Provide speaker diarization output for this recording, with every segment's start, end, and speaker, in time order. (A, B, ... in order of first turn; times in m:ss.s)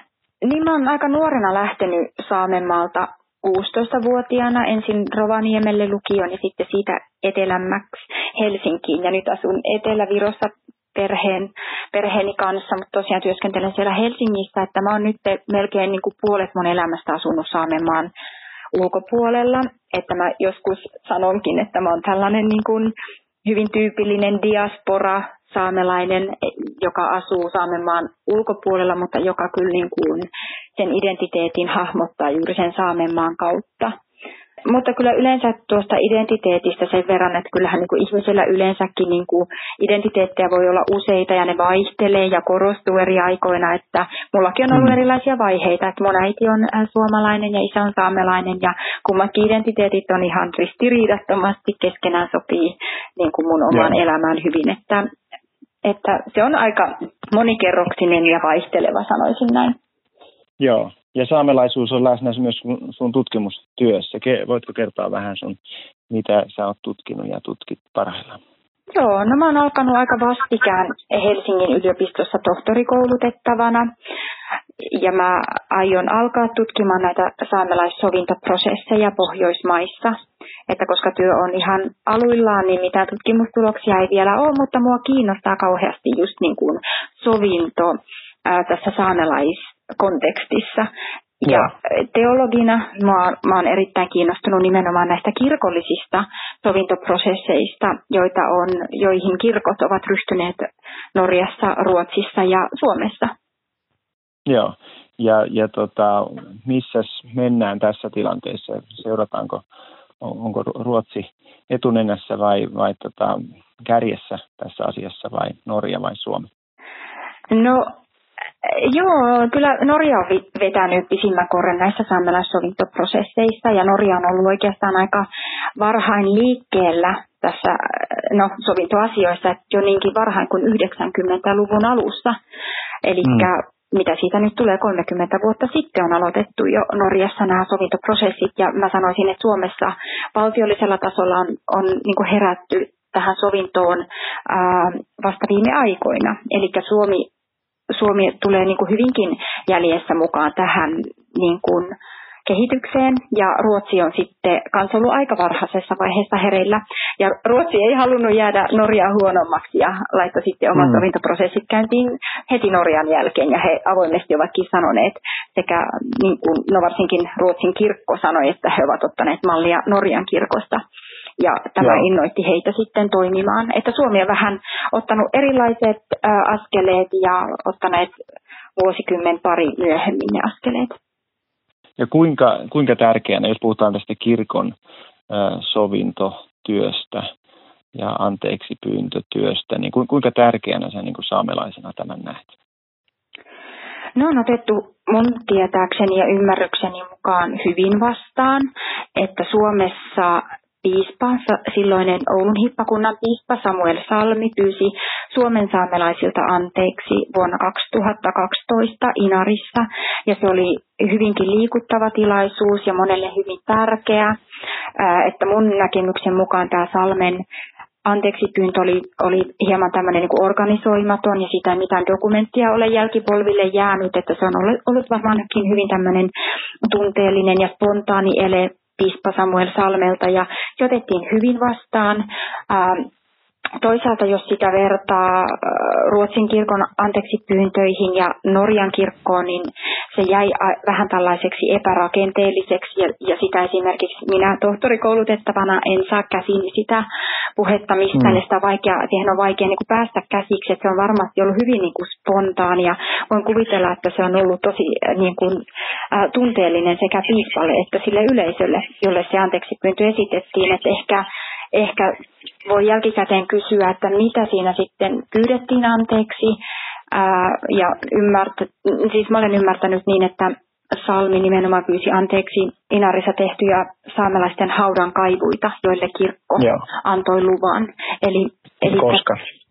0:00.4-0:18.1 A
0:18.7-0:22.9 A
0:23.4-0:34.0 A
0:34.7-0:55.1 A
0:53.7-0:54.0 B
0:55.8-0:59.8 A
1:00.6-1:05.6 B
1:06.1-1:08.4 B
1:08.9-1:13.9 A
1:14.8-1:30.9 A
1:31.4-1:43.3 A
1:44.5-1:49.6 B
1:50.2-1:56.5 B
1:57.5-1:57.9 A
1:58.6-2:12.4 A
2:13.0-2:27.3 A
2:27.9-2:31.9 A
2:32.5-2:50.8 A
2:40.8-2:41.0 B
2:51.4-2:58.1 A
2:51.8-2:52.1 B
2:58.8-3:01.0 A
3:02.0-3:04.7 B
3:05.3-3:07.3 B
3:08.0-3:12.5 B
3:14.2-3:34.4 A
3:35.0-3:37.4 A
3:38.0-3:46.3 A
3:46.9-3:53.1 A
3:53.8-4:07.1 A
4:07.6-4:26.6 A
4:08.2-4:08.4 B
4:27.1-4:39.3 A
4:36.6-4:36.8 B
4:38.9-4:39.4 B